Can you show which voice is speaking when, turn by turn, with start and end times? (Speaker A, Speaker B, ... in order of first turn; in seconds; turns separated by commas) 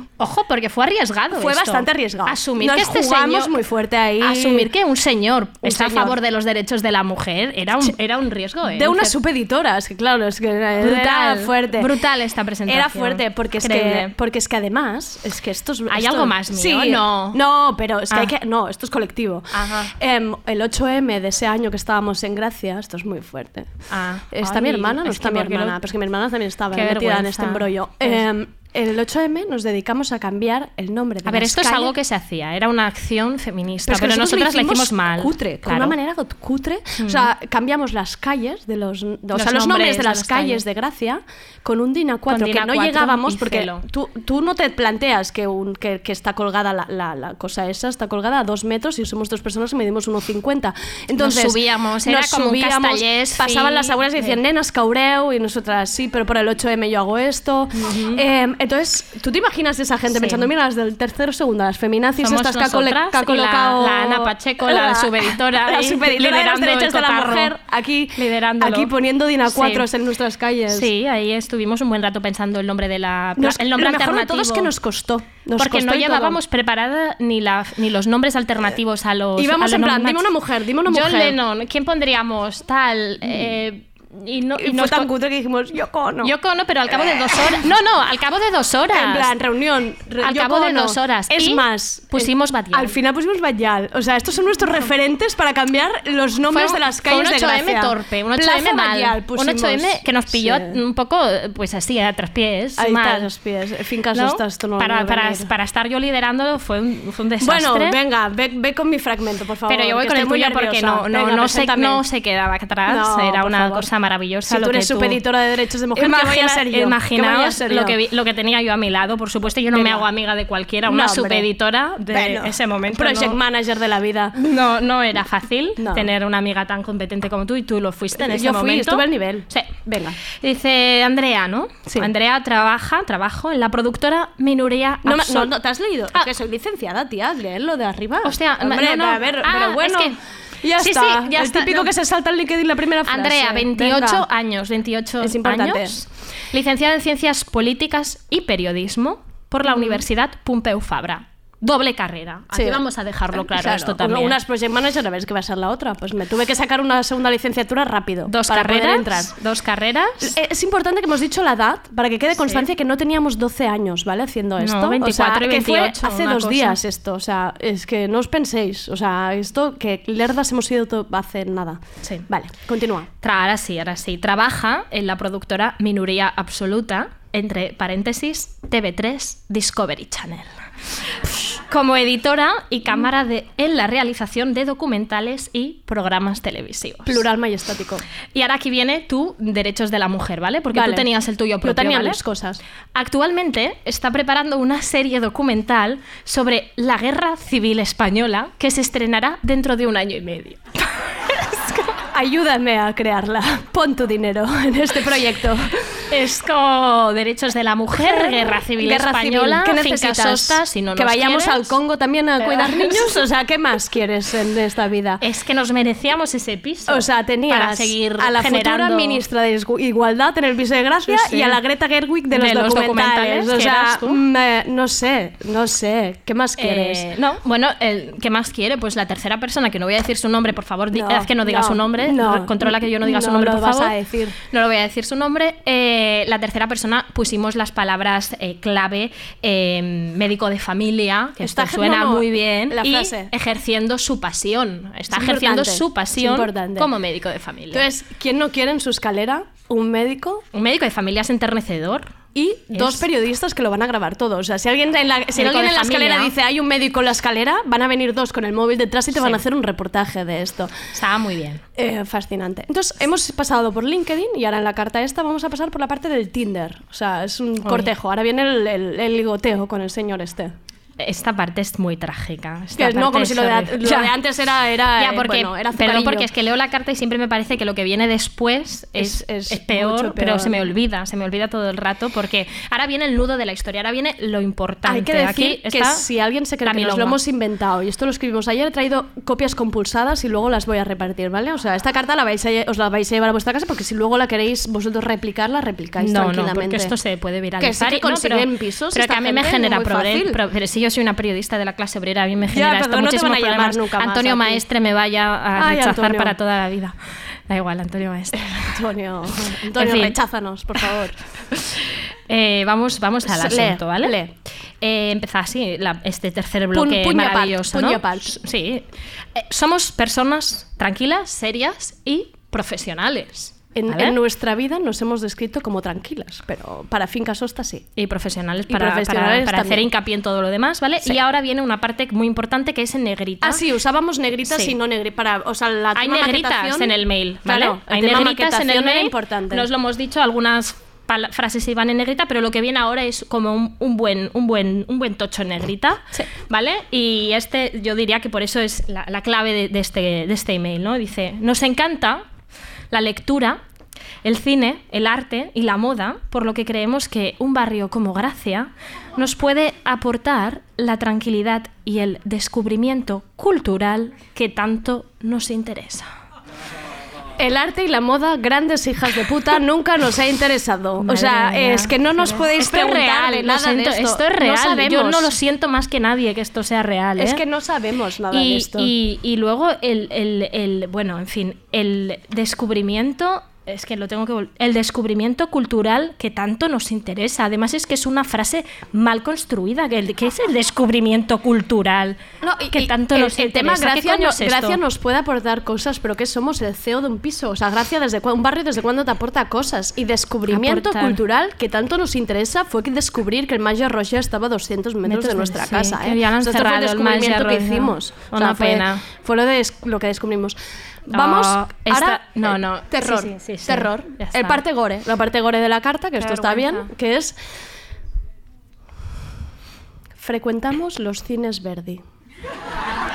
Speaker A: 0.2-3.6, Speaker B: 1.3-4.7, Speaker A: 4.2-9.1, Speaker B: 5.6-6.2, Speaker B: 8.6-11.9, Speaker A: 10.8-14.1, Speaker B: 12.7-23.7, Speaker A: 15.9-17.4, Speaker A: 19.5-19.9, Speaker A: 23.9-25.8, Speaker B: 24.3-31.9, Speaker A: 26.7-28.2, Speaker A: 31.2-35.9, Speaker B: 33.9-70.9, Speaker A: 37.0-37.3, Speaker A: 39.3-40.6, Speaker A: 42.3-43.8, Speaker A: 51.2-54.4, Speaker A: 57.7-58.2, Speaker A: 60.1-60.5, Speaker A: 62.2-67.5, Speaker A: 68.2-68.9, Speaker A: 69.5-69.8, Speaker A: 70.7-74.7, Speaker B: 73.4-76.4, Speaker A: 75.6-80.3, Speaker B: 79.4-81.4, Speaker A: 80.8-85.1, Speaker B: 84.6-86.3, Speaker A: 86.2-89.3, Speaker B: 86.9-87.6, Speaker B: 88.9-100.7, Speaker A: 90.2-93.0, Speaker A: 96.5-103.3, Speaker B: 102.8-105.5, Speaker A: 104.1-108.0, Speaker B: 107.4-112.0, Speaker A: 109.7-115.2, Speaker B: 112.8-113.9, Speaker B: 114.5-118.0, Speaker A: 115.9-123.4, Speaker B: 119.7-120.1, Speaker B: 120.9-121.5, Speaker B: 122.1-124.3, Speaker A: 124.4-135.5, Speaker B: 125.8-126.1, Speaker B: 128.2-130.2, Speaker B: 135.0-144.2, Speaker A: 138.2-140.1, Speaker A: 140.8-141.9, Speaker A: 143.1-154.4, Speaker B: 145.2-145.9, Speaker B: 149.7-150.0, Speaker B: 152.5-152.8, Speaker B: 153.3-159.3, Speaker A: 158.3-160.3, Speaker B: 160.2-173.1, Speaker A: 162.4-162.7, Speaker A: 164.6-166.8, Speaker A: 173.2-180.5, Speaker A: 181.2-187.2, Speaker B: 187.0-188.0, Speaker A: 188.3-192.2, Speaker B: 190.7-191.1, Speaker B: 191.6-192.6, Speaker A: 192.9-200.6, Speaker A: 201.3-201.9, Speaker B: 202.1-205.8, Speaker A: 206.1-211.7, Speaker B: 207.9-215.2, Speaker A: 212.4-213.2, Speaker A: 215.2-219.2, Speaker B: 216.9-227.1, Speaker A: 221.1-221.6, Speaker A: 222.3-224.2, Speaker A: 226.6-247.8, Speaker B: 230.9-234.3, Speaker B: 241.4-243.3, Speaker B: 245.1-246.9, Speaker B: 247.7-250.4, Speaker A: 250.5-252.1, Speaker B: 252.3-260.7, Speaker A: 252.7-253.0, Speaker A: 255.3-256.3, Speaker A: 259.1-259.4, Speaker A: 260.9-261.6, Speaker B: 261.8-270.5, Speaker A: 267.6-267.9, Speaker A: 271.0-274.1, Speaker B: 272.8-276.3, Speaker A: 275.0-286.0, Speaker B: 279.0-280.6, Speaker B: 284.8-296.9, Speaker A: 286.6-287.2, Speaker A: 296.0-306.9, Speaker B: 297.6-300.4, Speaker B: 302.5-304.6, Speaker B: 305.6-306.3, Speaker A: 307.5-308.4, Speaker B: 308.4-311.1, Speaker A: 309.8-310.1, Speaker A: 312.3-314.1, Speaker B: 313.2-314.3, Speaker A: 314.8-318.8, Speaker B: 316.7-318.3, Speaker A: 319.4-324.2, Speaker B: 323.7-327.9, Speaker A: 327.9-333.6, Speaker B: 328.7-329.8, Speaker B: 333.4-339.7, Speaker A: 334.4-334.7, Speaker A: 335.9-352.2, Speaker A: 352.9-353.6, Speaker A: 354.2-366.1, Speaker B: 367.4-375.3, Speaker A: 371.0-377.4, Speaker B: 377.2-378.9, Speaker A: 378.3-392.2, Speaker B: 392.4-410.6, Speaker A: 392.7-394.8, Speaker A: 400.5-401.2, Speaker A: 405.0-409.0, Speaker B: 411.1-417.4, Speaker A: 411.1-414.6, Speaker A: 416.2-416.9, Speaker B: 420.2-422.0